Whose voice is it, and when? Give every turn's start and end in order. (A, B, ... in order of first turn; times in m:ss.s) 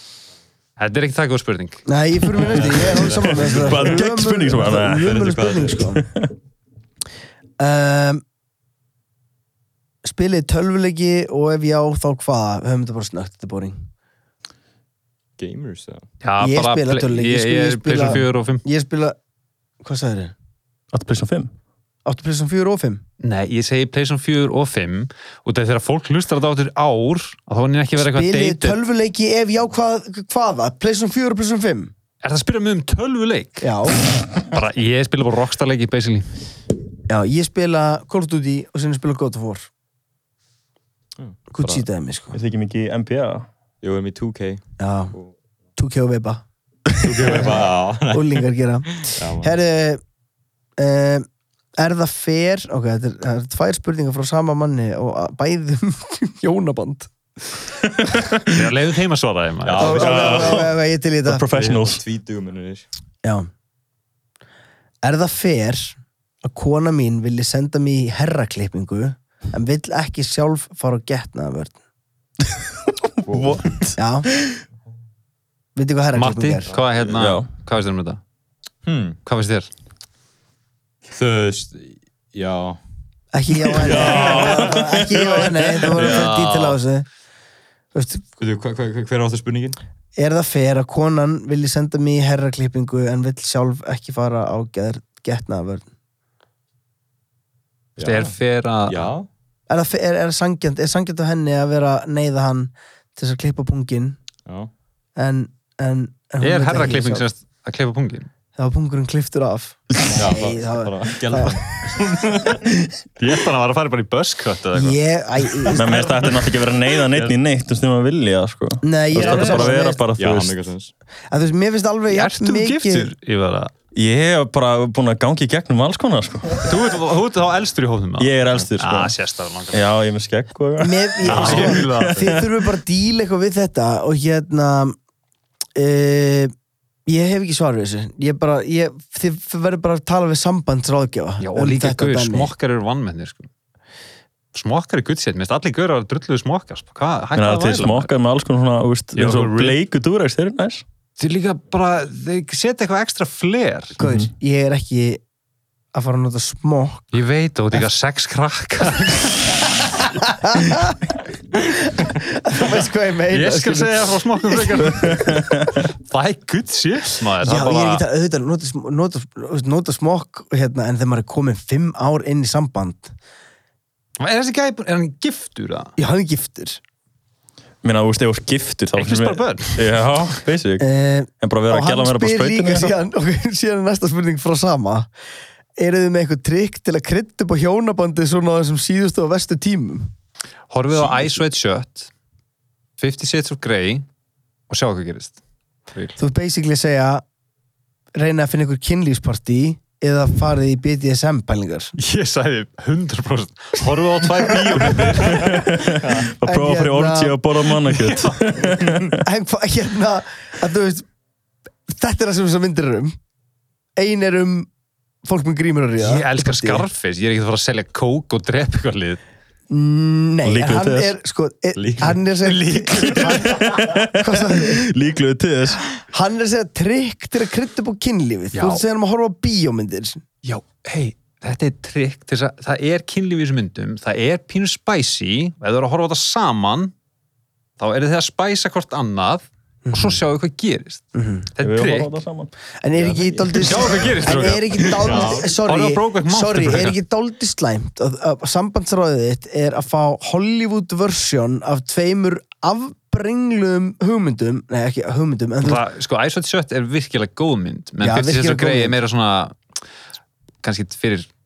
0:00.8-0:01.8 A
0:01.9-0:06.0 B
0:02.6-0:03.8 C
0:02.9-0:03.2 A
0:03.4-0:05.2 D
0:05.0-0:05.8 C
0:06.0-0:06.3 D
0:07.6-0:08.2 B
0:10.0-0:13.9 B
0:15.4-0:16.1 C
0:16.2-0:18.6 A
0:16.4-0:19.2 B
0:19.8-0:20.3 B
0:20.9-0:21.5 D
0:22.0-0:23.0 B
0:23.2-0:28.8 A
0:28.0-0:31.9 B
0:32.2-0:33.7 A
0:33.6-0:34.0 B
0:34.5-0:36.3 A
0:37.1-0:39.7 B
0:41.2-0:41.8 C
0:41.5-0:42.4 B
0:42.3-0:43.5 D
0:43.8-0:45.3 C
0:44.8-0:45.1 B
0:45.8-0:46.4 B
0:47.0-0:49.5 C
0:47.2-0:50.0 B
0:50.8-0:51.2 B
0:51.8-0:57.1 B
0:57.8-0:58.3 D
0:58.5-1:00.1 A
0:59.6-1:00.7 C
0:59.8-1:01.4 B
0:59.8-1:00.7 D
1:01.2-1:02.0 D
1:01.5-1:02.9 C
1:03.2-1:03.5 B
1:05.0-1:11.8 B
1:13.2-1:14.0 D
1:13.2-1:13.6 C
1:14.0-1:14.3 B
1:15.8-1:16.7 B
1:16.1-1:18.2 A
1:16.7-1:17.3 C
1:17.1-1:17.4 D
1:18.8-1:19.2 C
1:19.2-1:19.7 A
1:21.1-1:22.8 C
1:23.3-1:27.0 B
1:23.7-1:26.3 D
1:23.9-1:24.7 C
1:26.1-1:26.4 C
1:26.4-1:26.7 A
1:27.9-1:28.2 B
1:28.4-1:29.8 C
1:30.2-1:35.8 B
1:38.0-1:38.3 C
1:38.0-1:39.1 A
1:38.9-1:39.3 C
1:39.7-1:44.2 B
1:45.2-1:47.2 B
1:46.4-1:48.3 A
1:48.6-1:51.6 B
1:50.1-1:52.6 C
1:53.2-1:55.0 A
1:54.7-1:55.9 B
1:55.7-2:00.6 D
1:58.8-2:00.0 B
1:59.2-1:59.5 A
2:00.2-2:00.9 C
2:01.3-2:03.1 B
2:02.1-2:03.7 A
2:03.9-2:06.7 D
2:06.6-2:09.9 A
2:08.2-2:09.1 D
2:09.7-2:12.5 D
2:10.8-2:15.0 B
2:11.3-2:12.4 A
2:15.8-2:16.5 B
2:17.1-2:22.5 B
2:21.4-2:23.5 A
2:24.5-2:28.1 A
2:27.3-2:30.8 D
2:29.2-2:29.8 A
2:31.2-2:34.0 A
2:34.0-2:34.3 D
2:34.0-2:35.2 B
2:35.9-2:37.1 B
2:37.1-2:39.6 A
2:39.8-2:41.0 B
2:41.5-2:45.1 B
2:43.3-2:45.4 A
2:45.0-2:45.8 D
2:46.0-2:48.0 A
2:47.4-2:53.1 B
2:54.2-2:55.9 A
2:56.0-2:56.8 B
2:57.8-3:00.9 D
2:59.0-2:59.9 A
3:00.8-3:05.1 B
3:01.4-3:03.0 D
3:05.8-3:10.1 B
3:10.7-3:12.1 A
3:13.0-3:14.0 A
3:14.7-3:15.4 A
3:15.9-3:16.2 A
3:16.2-3:17.2 B
3:18.2-3:21.9 B
3:22.0-3:25.6 A
3:24.8-3:29.2 D
3:26.4-3:27.4 B
3:27.9-3:28.4 A
3:29.1-3:31.0 B
3:31.9-3:33.1 B
3:34.0-3:34.7 B
3:35.2-3:36.8 B
3:36.0-3:39.2 A
3:39.7-3:44.8 B
3:40.4-3:41.2 D
3:41.8-3:42.2 C
3:42.4-3:43.5 A
3:43.0-3:45.8 D
3:46.1-3:50.2 B
3:48.5-3:48.8 A
3:50.4-3:56.9 A
3:57.8-4:01.0 A
3:59.8-4:00.2 B
4:01.1-4:01.5 B
4:01.6-4:02.1 A
4:01.6-4:02.5 D
4:02.8-4:15.8 B
4:03.5-4:07.0 A
4:05.0-4:05.5 C
4:15.6-4:19.6 A
4:18.0-4:19.0 B
4:20.6-4:21.3 A